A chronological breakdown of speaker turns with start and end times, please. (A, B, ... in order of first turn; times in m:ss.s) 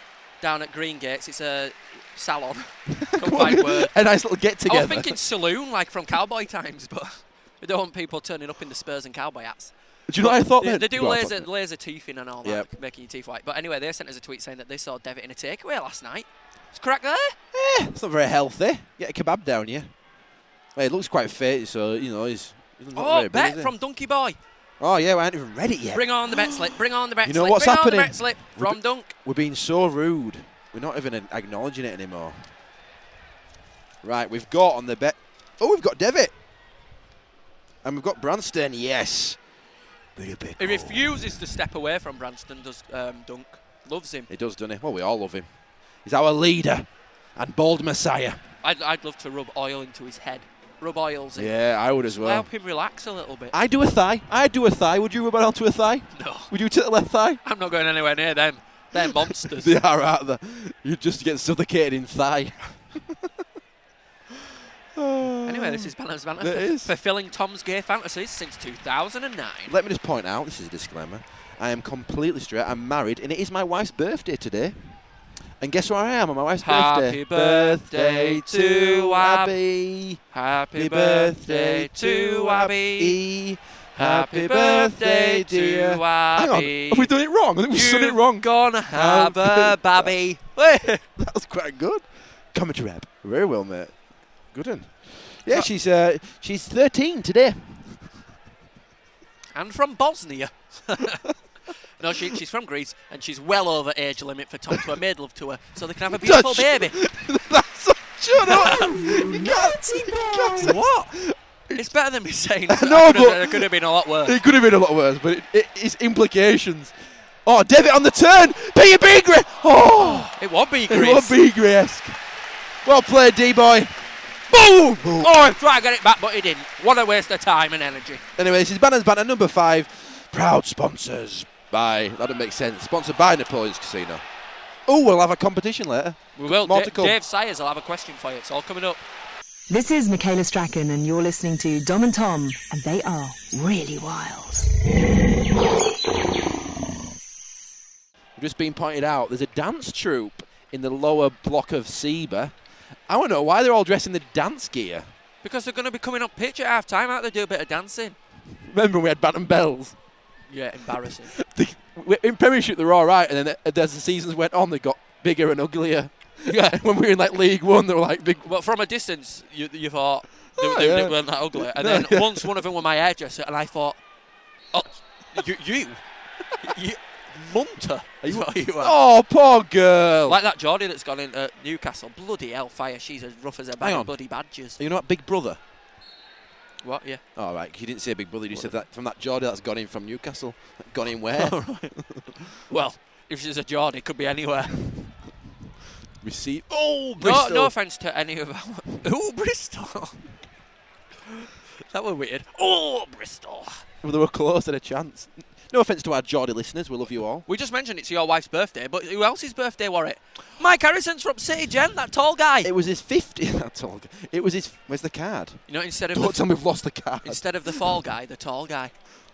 0:00.4-0:04.0 A
0:02.9-0:05.2 B
0:04.6-0:17.4 A
0:10.1-0:11.5 B
0:17.5-0:19.9 B
0:20.7-0:23.7 B
0:22.9-0:24.4 A
0:24.8-0:32.4 B
0:25.9-0:29.1 A
0:34.0-0:36.3 B
0:37.8-0:39.4 B
0:40.2-0:41.3 B
0:40.6-0:44.3 A
0:44.3-0:45.5 B
0:46.0-0:48.4 B
0:48.6-0:51.5 A
0:51.3-0:52.5 B
0:52.0-0:53.6 A
0:53.5-0:57.4 B
0:56.1-0:56.5 A
0:57.4-0:59.7 A
0:59.0-1:03.2 B
1:04.9-1:06.9 B
1:05.4-1:09.7 A
1:09.7-1:14.8 B
1:15.6-1:20.2 B
1:16.6-1:19.5 A
1:20.3-1:23.2 A
1:20.8-1:30.1 B
1:23.9-1:27.1 A
1:27.7-1:31.0 A
1:31.2-1:34.0 B
1:34.5-1:38.1 B
1:39.5-1:41.2 A
1:42.0-1:47.0 A
1:46.1-1:51.9 B
1:48.4-1:48.9 A
1:48.7-1:50.8 C
1:50.6-1:51.0 A
1:51.7-1:54.4 A
1:52.7-1:53.7 B
1:54.2-2:00.3 B
2:00.0-2:01.4 A
2:00.9-2:02.2 B
2:02.8-2:03.9 B
2:04.5-2:08.2 A
2:04.9-2:05.5 B
2:08.4-2:14.2 B
2:14.9-2:17.2 B
2:16.4-2:19.0 A
2:19.7-2:24.6 C
2:28.4-2:32.5 B
2:33.1-2:35.1 B
2:35.4-2:38.2 A
2:38.6-2:40.0 B
2:40.5-2:41.3 A
2:41.3-2:48.4 B
2:48.4-2:54.0 A
2:50.6-2:52.6 B
2:54.7-2:56.0 A
2:56.6-2:58.9 A
2:58.2-3:00.4 B
3:00.2-3:04.8 A
3:03.8-3:04.1 B
3:04.8-3:05.6 B
3:06.8-3:07.2 A
3:07.3-3:12.2 B
3:08.5-3:08.8 A
3:11.3-3:11.9 A
3:12.6-3:14.9 A
3:16.2-3:17.7 B
3:17.2-3:20.3 A
3:21.4-3:23.8 A
3:24.0-3:27.4 B
3:27.4-3:32.7 A
3:32.6-3:37.8 B
3:35.7-3:36.5 A
3:37.2-3:38.9 A